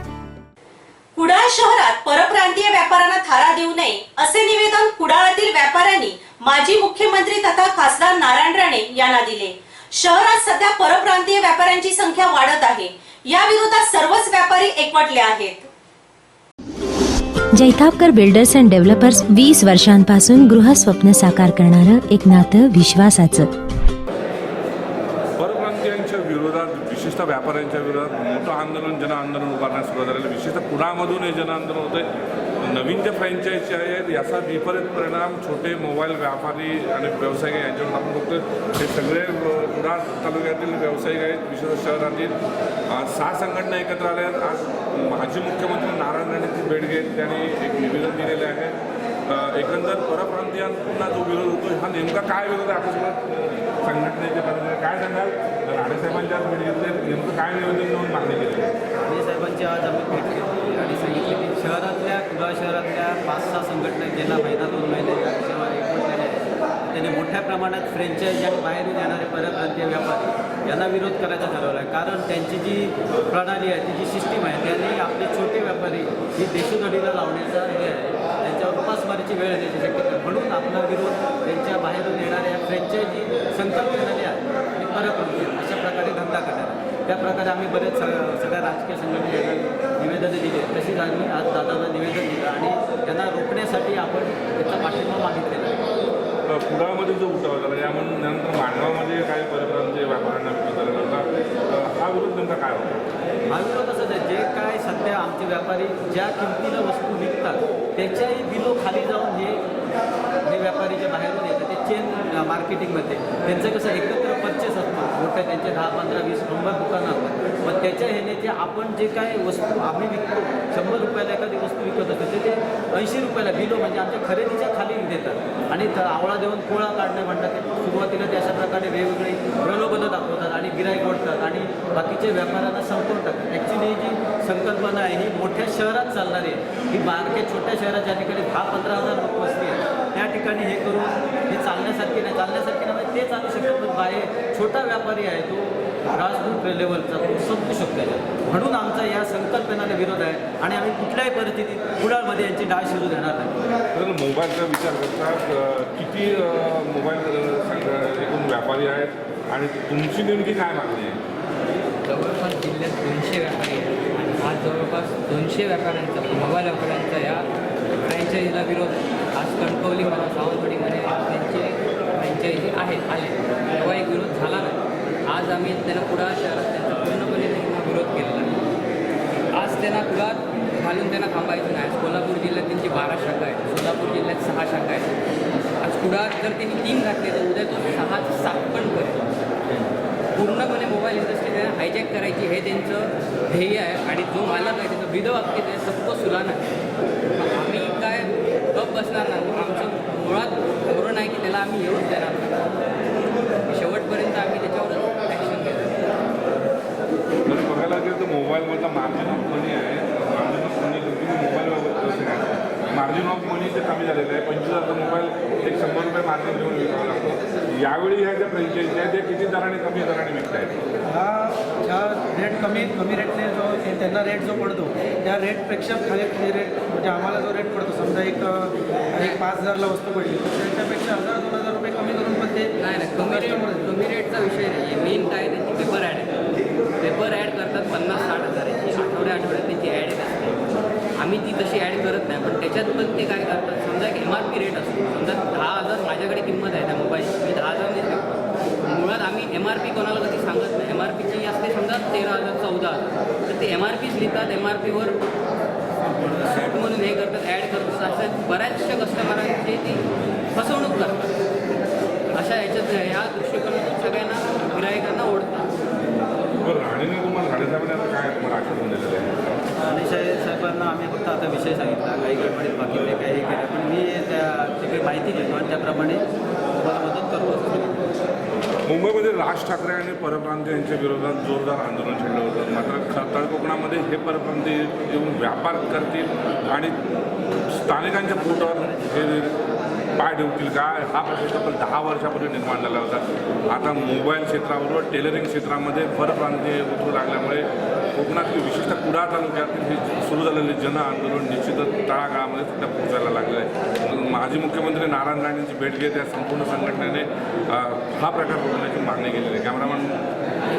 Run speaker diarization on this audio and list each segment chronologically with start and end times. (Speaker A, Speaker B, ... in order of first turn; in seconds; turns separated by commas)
Speaker A: 1.2-15.7, Speaker B: 17.5-23.5, Speaker C: 25.4-32.0, Speaker C: 32.6-42.3, Speaker C: 42.9-48.7, Speaker C: 49.3-58.7, Speaker D: 59.0-95.8, Speaker C: 96.5-103.0, Speaker D: 103.5-109.6, Speaker D: 110.4-153.8, Speaker C: 153.9-161.2, Speaker E: 162.1-167.5, Speaker E: 168.1-178.5, Speaker E: 179.5-185.1, Speaker E: 185.8-189.3, Speaker E: 190.4-196.6, Speaker E: 197.3-202.6, Speaker E: 203.7-206.0, Speaker C: 207.4-220.8, Speaker F: 221.1-233.9, Speaker E: 232.8-236.3, Speaker E: 237.0-240.6, Speaker E: 241.2-255.2, Speaker E: 256.2-261.3, Speaker E: 262.4-265.7, Speaker C: 266.6-269.3, Speaker D: 269.8-278.1, Speaker C: 278.9-286.9, Speaker C: 287.7-289.5, Speaker C: 290.2-310.2